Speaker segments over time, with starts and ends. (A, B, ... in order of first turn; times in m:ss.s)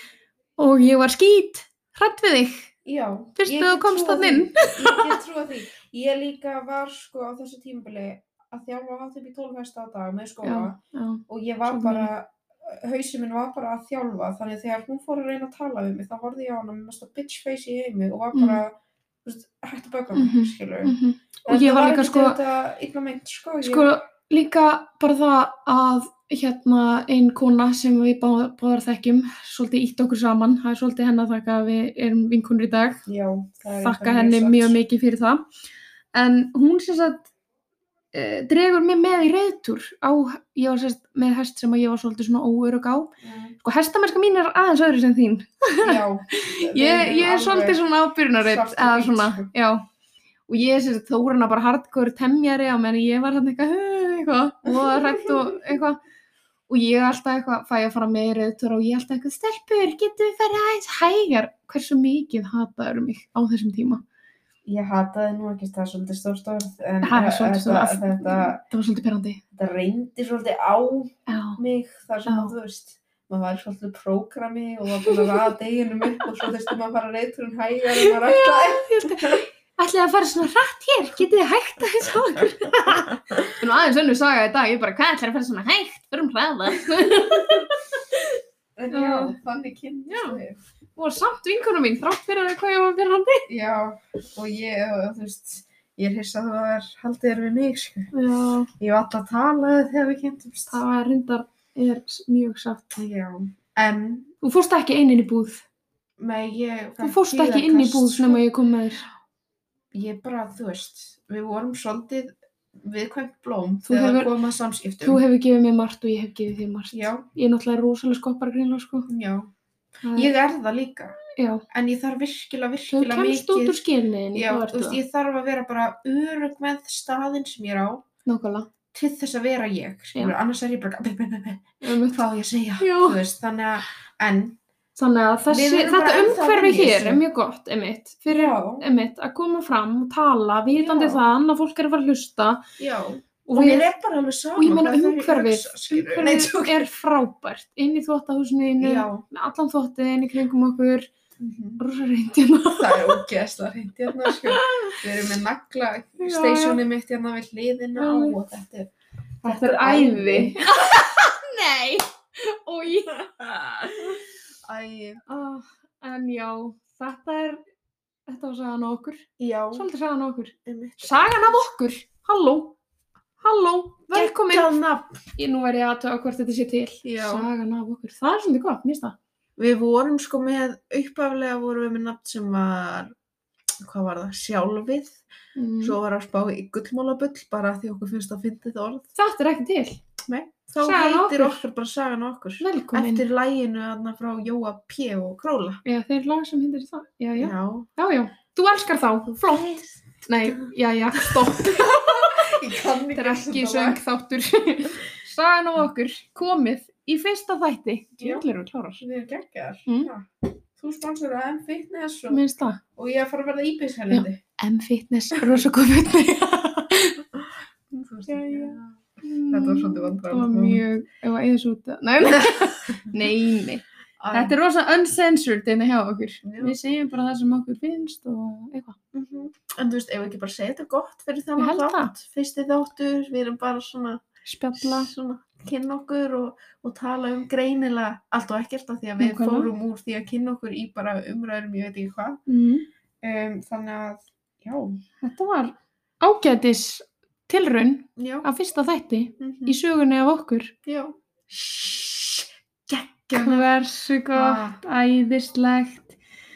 0:00.6-0:02.7 A
0:02.8-0:23.9 B
0:03.4-0:05.2 A
0:10.4-0:12.1 A
0:18.3-0:18.6 A
0:20.1-0:22.4 A
0:23.6-0:33.0 A
0:33.0-0:34.8 B
0:33.7-0:35.5 A
0:36.1-0:37.3 A
0:38.1-0:49.8 A
0:43.2-0:43.6 B
0:45.8-0:47.8 B
0:48.4-0:49.5 B
0:50.5-0:56.0 A
0:54.6-0:55.4 B
0:56.7-1:04.0 A
1:04.7-1:08.6 B
1:07.0-1:09.4 A
1:09.5-1:19.4 B
1:11.3-1:11.6 A
1:12.3-1:12.5 A
1:15.0-1:15.5 A
1:17.9-1:29.4 A
1:22.9-1:23.5 B
1:28.8-1:30.6 B
1:30.1-1:30.4 A
1:31.0-1:33.5 A
1:33.5-1:38.1 B
1:38.1-1:38.7 A
1:38.8-1:40.8 B
1:40.7-1:43.0 A
1:43.0-1:44.3 B
1:44.4-1:45.6 A
1:46.2-1:48.4 B
1:47.0-1:49.0 A
1:49.9-1:55.2 B
1:53.9-1:54.3 A
1:55.0-1:59.1 A
1:56.9-1:57.2 B
1:59.1-1:59.5 B
2:00.0-2:00.3 A
2:00.1-2:03.8 B
2:01.3-2:01.6 A
2:02.9-2:05.0 A
2:04.3-2:08.0 B
2:08.2-2:08.7 A
2:08.9-2:14.6 B
2:11.8-2:12.2 A
2:12.8-2:13.2 A
2:15.0-2:22.6 A
2:15.5-2:17.2 B
2:18.3-2:18.8 B
2:20.7-2:21.2 B
2:22.8-2:26.9 B
2:23.4-2:23.9 A
2:24.6-2:31.1 A
2:28.8-2:29.2 B
2:31.4-2:31.8 B
2:31.8-2:33.2 A
2:32.7-2:38.9 B
2:34.1-2:35.0 A
2:36.2-2:36.8 A
2:38.0-2:38.4 A
2:39.4-2:44.1 A
2:39.4-2:40.6 B
2:43.8-2:44.1 B
2:44.7-2:45.2 B
2:45.3-2:47.6 A
2:48.3-2:52.8 A
2:49.4-2:49.8 B
2:50.6-2:51.5 B
2:53.4-2:54.7 A
2:54.1-2:55.2 B
2:55.4-2:59.2 A
2:57.0-2:57.5 B
2:59.6-3:03.1 B
3:03.8-3:05.2 B
3:05.5-3:06.0 A
3:05.8-3:09.1 B
3:09.2-3:10.0 A
3:10.2-3:15.8 B
3:10.8-3:11.6 A
3:12.6-3:13.2 A
3:15.8-3:22.6 A
3:17.4-3:17.9 B
3:19.5-3:19.9 B
3:21.2-3:24.0 B
3:23.1-3:29.0 A
3:29.0-3:32.4 B
3:32.3-3:32.8 A
3:33.0-3:34.4 B
3:34.1-3:37.2 A
3:37.9-3:38.9 B
3:38.3-3:49.0 A
3:39.5-3:40.8 B
3:44.2-3:44.6 B
3:46.4-3:46.7 B
3:49.1-3:54.2 B
3:51.6-3:52.1 A
3:54.4-3:55.1 A
3:54.8-4:02.4 B
3:59.2-3:59.7 A
4:02.5-4:02.9 A
4:03.2-4:05.0 B
4:05.2-4:10.7 A
4:08.2-4:08.5 B
4:09.4-4:09.8 B
4:10.8-4:13.7 B
4:13.3-4:16.2 A
4:14.3-4:14.8 B